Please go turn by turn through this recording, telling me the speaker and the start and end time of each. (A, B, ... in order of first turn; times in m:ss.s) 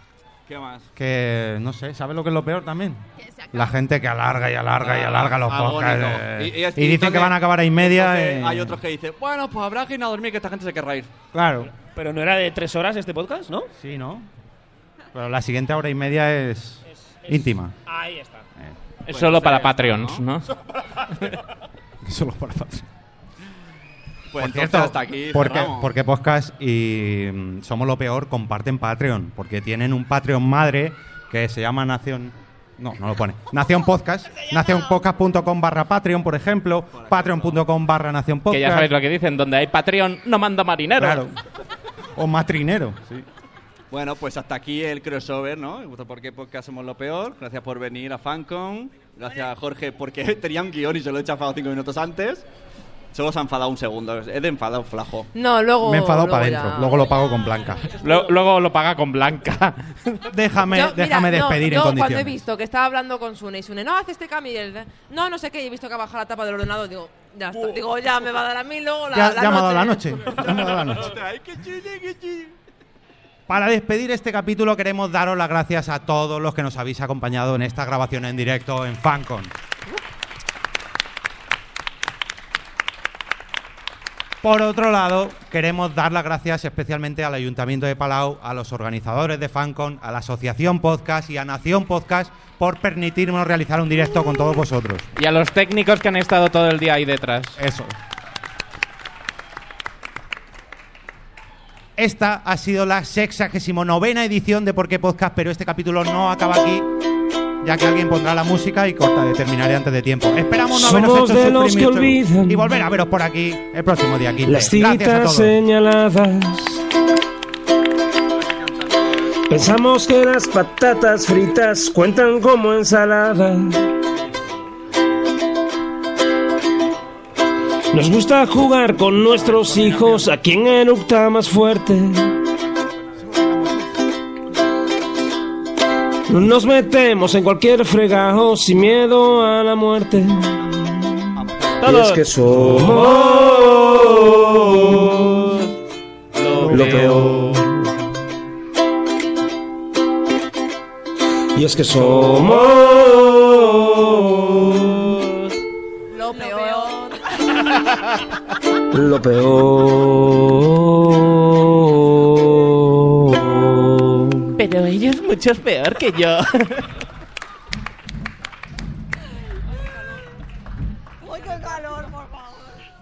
0:00.5-0:00.9 A
0:01.0-0:08.8 B
0:03.2-0:03.8 C
0:04.8-0:11.1 A
0:11.3-0:11.7 B
0:11.8-0:13.7 D
0:13.8-0:14.3 B
0:15.1-0:17.7 B
0:16.9-0:18.5 D
0:19.1-0:20.5 E
0:19.1-0:20.3 A
0:21.1-0:21.4 E
0:22.0-0:22.9 B
0:24.3-0:25.9 A
0:24.4-0:38.9 B
0:34.3-0:35.0 C
0:36.9-0:37.6 A
0:38.5-0:41.2 E
0:41.0-0:41.4 B
0:42.2-0:43.3 B
0:43.9-0:52.4 A
0:53.1-0:55.3 A
0:55.3-0:57.1 F
0:55.8-0:57.9 B
0:57.4-0:57.7 C
0:58.0-1:00.3 E
0:58.0-0:58.4 D
1:00.3-1:02.4 B
1:00.7-1:10.1 F
1:07.5-1:08.1 D
1:09.1-1:11.2 B
1:10.4-1:12.6 A
1:13.5-1:19.5 B
1:24.4-1:35.1 B
1:35.2-1:37.6 E
1:37.6-1:38.0 B
1:42.0-1:46.9 B
1:47.6-1:55.6 B
1:50.7-1:52.8 G
1:54.5-1:56.8 G
1:59.5-2:03.9 G
2:07.9-2:12.4 G
2:09.4-2:10.3 B
2:13.3-2:13.8 B
2:16.3-2:20.9 G
2:21.4-2:22.0 A
2:21.8-2:23.0 E
2:21.8-2:25.6 G
2:24.7-2:25.8 E
2:26.4-2:27.7 E
2:26.5-2:27.7 G
2:31.6-2:35.2 G
2:36.1-2:37.2 F
2:36.3-2:37.6 C
2:38.9-2:44.5 G
2:44.6-2:46.9 E
2:51.2-2:52.8 C